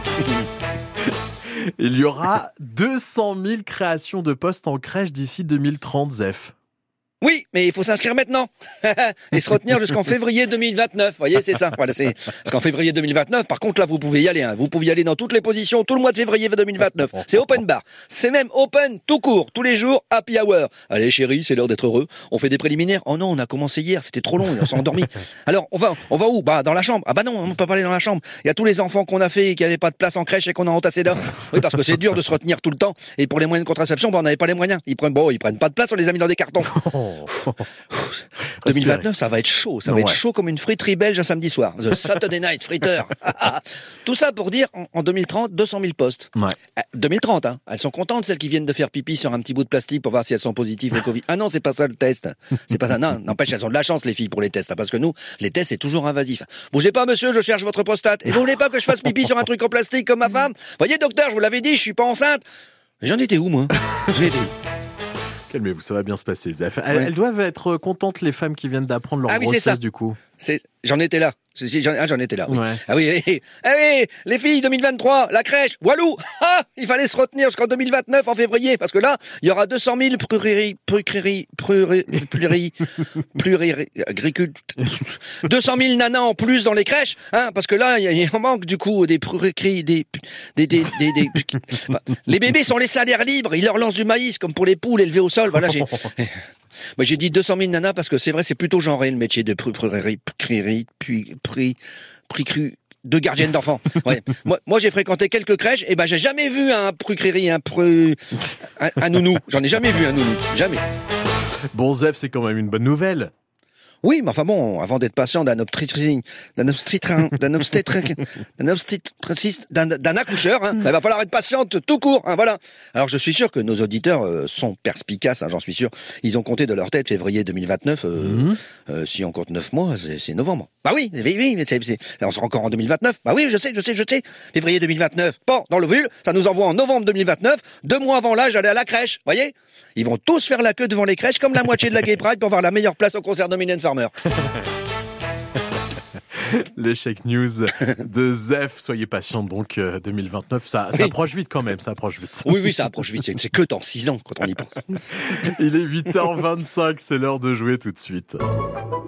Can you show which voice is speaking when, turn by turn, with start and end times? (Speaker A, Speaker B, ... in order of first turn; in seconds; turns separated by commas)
Speaker A: 1.0-6.5, Speaker B: 7.2-36.8, Speaker A: 36.7-37.7, Speaker B: 37.9-62.4, Speaker A: 38.6-39.1, Speaker A: 39.9-40.2, Speaker B: 63.0-64.5, Speaker A: 65.5-70.2, Speaker B: 69.3-69.8, Speaker B: 70.4-96.4, Speaker A: 72.5-72.8, Speaker B: 97.0-101.8, Speaker B: 102.3-108.2, Speaker B: 108.8-110.8, Speaker A: 111.7-113.3, Speaker B: 114.0-144.1, Speaker A: 128.3-128.6, Speaker A: 146.3-152.7, Speaker B: 152.4-155.0, Speaker A: 155.1-158.4